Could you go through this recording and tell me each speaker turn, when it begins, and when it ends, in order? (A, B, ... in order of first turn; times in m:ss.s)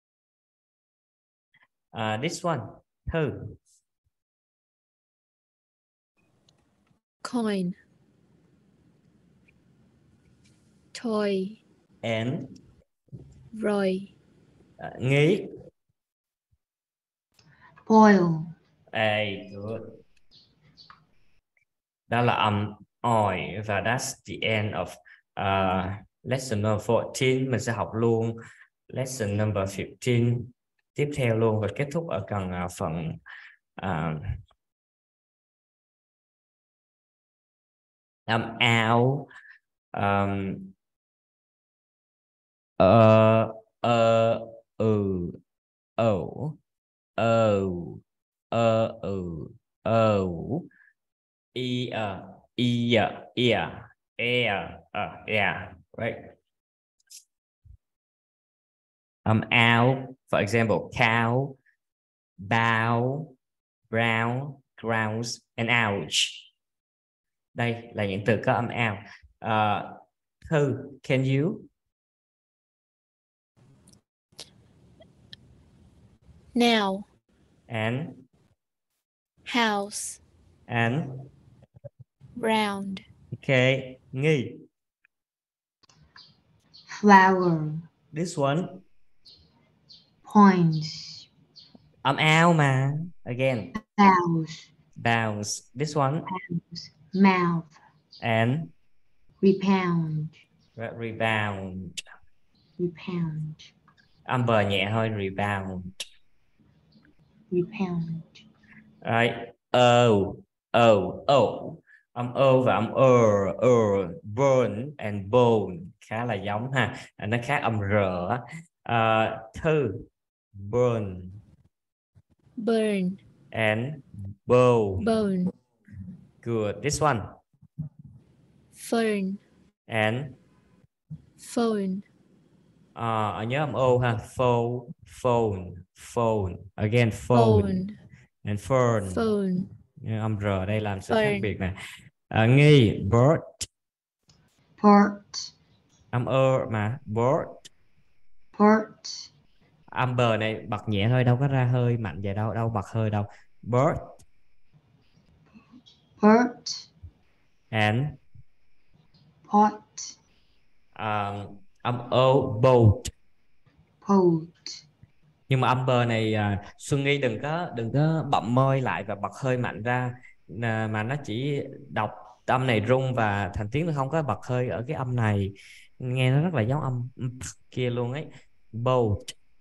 0:01.9-0:03.6 A
0:07.2-0:07.8 B
0:10.9-0:11.6 B
0:12.0-0:12.6 A
0:13.5-0:14.1 B
0:14.8-0:15.5 A
0:17.9-0:18.5 C
0:18.9-0:19.9 A
0:22.1-0:28.4 A
0:28.9-0:33.2 A
0:33.8-0:34.4 A
0:38.3-0:39.3 A
0:39.9-0:40.7 A
0:42.8-0:45.4 A
0:46.0-0:46.6 A
0:47.2-0:50.7 A
0:51.6-0:56.3 A
0:59.2-1:01.6 A
1:02.4-1:03.3 A
1:03.9-1:06.5 A
1:07.5-1:11.7 A
1:16.5-1:17.1 B
1:17.7-1:18.2 A
1:19.5-1:20.2 B
1:20.7-1:21.2 A
1:22.4-1:23.1 B
1:23.4-1:24.6 A
1:26.9-1:27.8 C
1:28.1-1:28.8 A
1:30.3-1:31.3 C
1:32.0-1:33.7 A
1:33.8-1:34.7 C
1:35.0-1:36.3 A
1:36.3-1:37.8 C
1:38.2-1:38.7 A
1:39.4-1:40.4 C
1:40.8-1:42.0 A
1:42.8-1:43.7 C
1:44.3-1:46.0 A
1:47.5-1:48.4 C
1:49.0-2:00.1 A
2:00.6-2:01.4 A
2:02.6-2:03.2 B
2:03.5-2:05.1 A
2:05.0-2:05.5 B
2:06.4-2:07.2 A
2:08.8-2:09.4 B
2:09.9-2:10.4 A
2:11.4-2:12.0 B
2:13.0-2:17.8 A
2:17.3-2:18.0 B
2:18.4-2:19.2 A
2:19.1-2:19.7 B
2:20.0-2:21.8 A
2:21.1-2:21.5 B
2:22.3-2:23.7 A
2:24.8-2:25.5 C
2:26.1-2:27.7 A
2:28.6-2:29.3 C
2:29.9-2:34.2 A
2:36.2-2:36.9 C
2:37.7-2:38.2 A
2:39.5-2:40.1 C
2:41.0-2:43.1 A
2:44.0-2:44.8 C
2:45.5-2:59.3 A